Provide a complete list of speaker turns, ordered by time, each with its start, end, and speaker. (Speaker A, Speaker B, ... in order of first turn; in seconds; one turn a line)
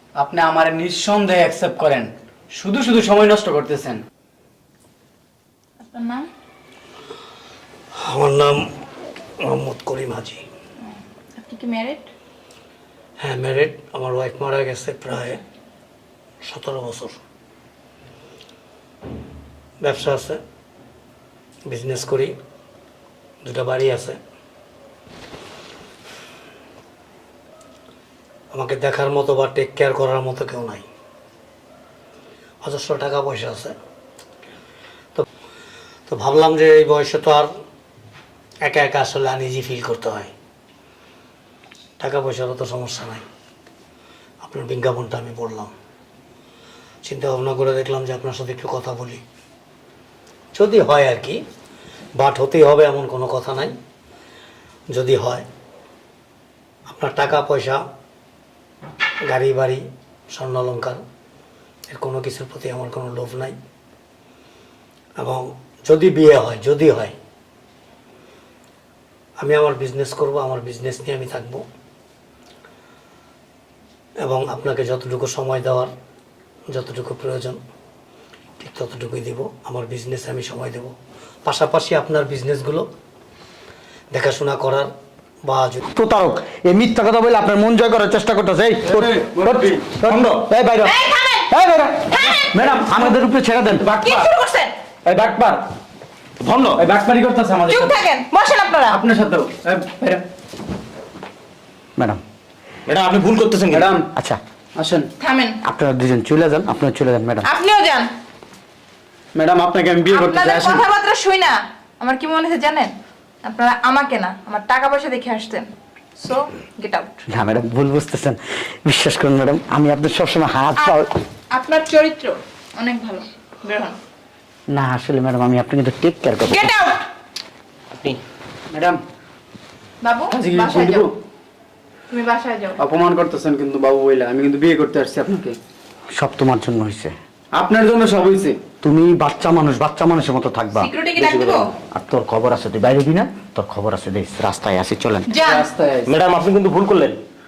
Speaker A: 0.2-4.0
Speaker B: 5.8-6.3
Speaker C: 8.0-8.7
Speaker C: 9.4-10.4
Speaker B: 10.8-12.1
Speaker C: 13.2-15.4
Speaker C: 16.4-17.2
Speaker C: 19.8-20.4
Speaker C: 21.7-22.4
Speaker C: 23.4-24.2
Speaker C: 28.5-30.8
Speaker C: 32.6-33.8
Speaker C: 36.1-37.5
Speaker C: 38.6-40.3
Speaker C: 42.0-43.2
Speaker C: 44.4-45.7
Speaker C: 47.0-49.2
Speaker C: 50.5-51.4
Speaker C: 52.1-53.8
Speaker C: 54.9-55.5
Speaker C: 56.9-57.8
Speaker C: 59.3-61.0
Speaker C: 61.9-63.6
Speaker C: 65.2-67.1
Speaker C: 69.4-71.7
Speaker C: 74.2-75.9
Speaker C: 76.7-77.6
Speaker C: 78.6-80.9
Speaker C: 81.5-82.9
Speaker C: 84.1-84.9
Speaker C: 85.4-85.8
Speaker D: 85.9-93.8
Speaker A: 88.9-89.9
Speaker E: 90.1-90.5
Speaker B: 90.8-91.5
Speaker B: 92.1-92.6
Speaker A: 92.6-93.0
Speaker A: 93.8-94.3
Speaker B: 94.0-94.8
Speaker A: 95.0-95.7
Speaker E: 96.4-96.8
Speaker A: 96.8-98.0
Speaker B: 97.7-99.0
Speaker A: 98.9-100.2
Speaker E: 102.9-104.0
Speaker A: 103.7-104.1
Speaker A: 104.8-105.1
Speaker B: 105.2-105.6
Speaker D: 105.6-107.5
Speaker B: 107.4-108.1
Speaker A: 109.3-110.9
Speaker B: 110.1-115.7
Speaker B: 116.2-117.2
Speaker D: 117.3-121.1
Speaker B: 120.8-124.0
Speaker D: 124.7-126.7
Speaker B: 126.4-127.1
Speaker E: 127.9-128.2
Speaker A: 128.7-129.0
Speaker B: 130.0-131.1
Speaker A: 130.3-131.1
Speaker B: 132.1-132.8
Speaker A: 132.8-135.6
Speaker D: 136.1-137.2
Speaker A: 137.5-138.6
Speaker D: 138.8-145.3
Speaker B: 140.8-141.7
Speaker E: 141.2-141.7
Speaker B: 145.3-145.7
Speaker A: 145.4-146.1
Speaker E: 146.1-147.2